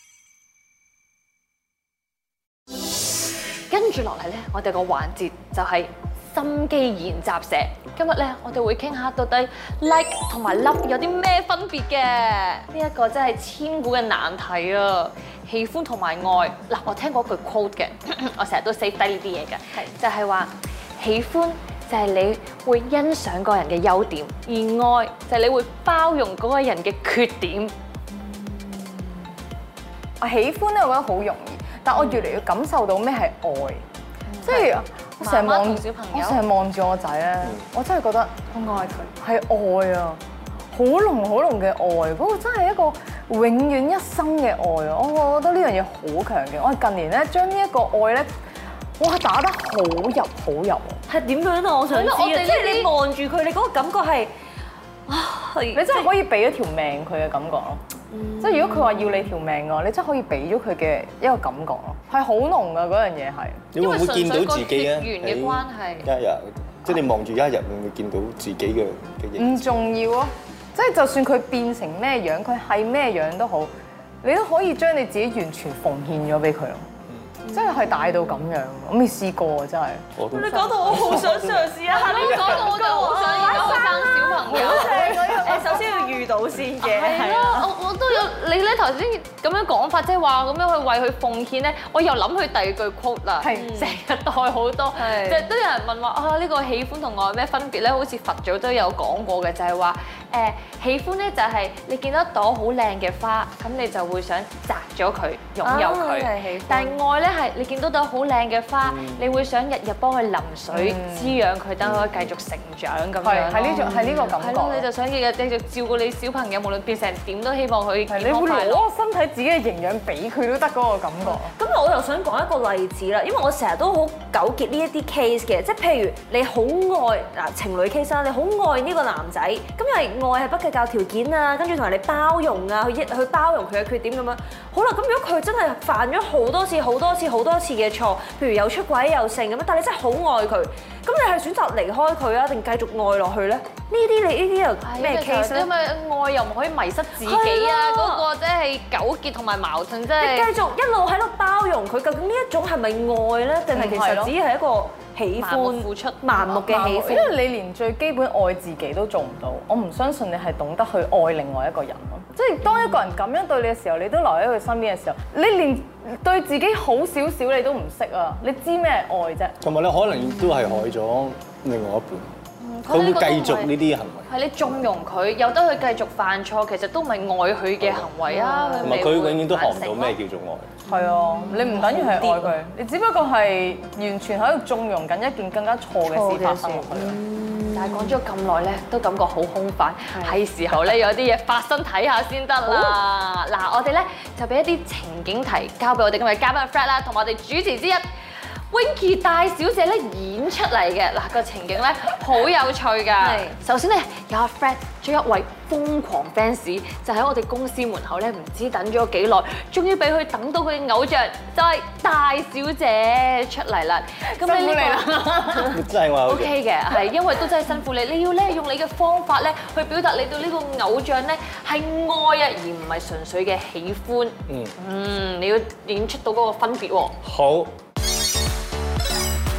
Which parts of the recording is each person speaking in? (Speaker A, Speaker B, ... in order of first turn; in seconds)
Speaker A: 3.7-27.7, 34.4-36.4, 51.9-52.9, 63.8-66.1, 81.9-85.2, 86.8-118.9, 144.8-150.5, 155.4-156.6, 172.6-173.7, 174.3-180.2, 187.7-198.0, 198.7-227.2
Speaker B: 30.2-33.8, 34.4-40.2, 40.7-48.3, 49.0-51.0, 55.8-57.8, 58.4-63.6, 69.4-73.7, 74.2-76.8, 77.5-80.1, 83.4-83.8, 84.4-85.9, 93.4-93.7, 110.7-111.4, 113.2-114.9, 118.1-121.5, 153.7-154.3, 156.6-169.6, 180.9-187.2, 214.3-215.8
Speaker C: 51.1-54.3, 55.1-56.1, 58.1-59.3, 77.5-78.4, 80.3-87.7, 93.5-94.0, 95.0-95.5, 105.6-107.0, 121.3-145.7, 147.2-148.2, 150.2-157.3, 178.3-179.2, 180.9-182.6, 186.1-188.2, 192.7-192.9, 203.2-203.5
Speaker D: 63.7-69.5, 80.2-82.6, 111.8-112.3, 169.6-172.3, 172.9-174.2, 177.8-178.1, 178.8-180.7, 215.7-216.6, 224.5-224.7, 227.2-227.8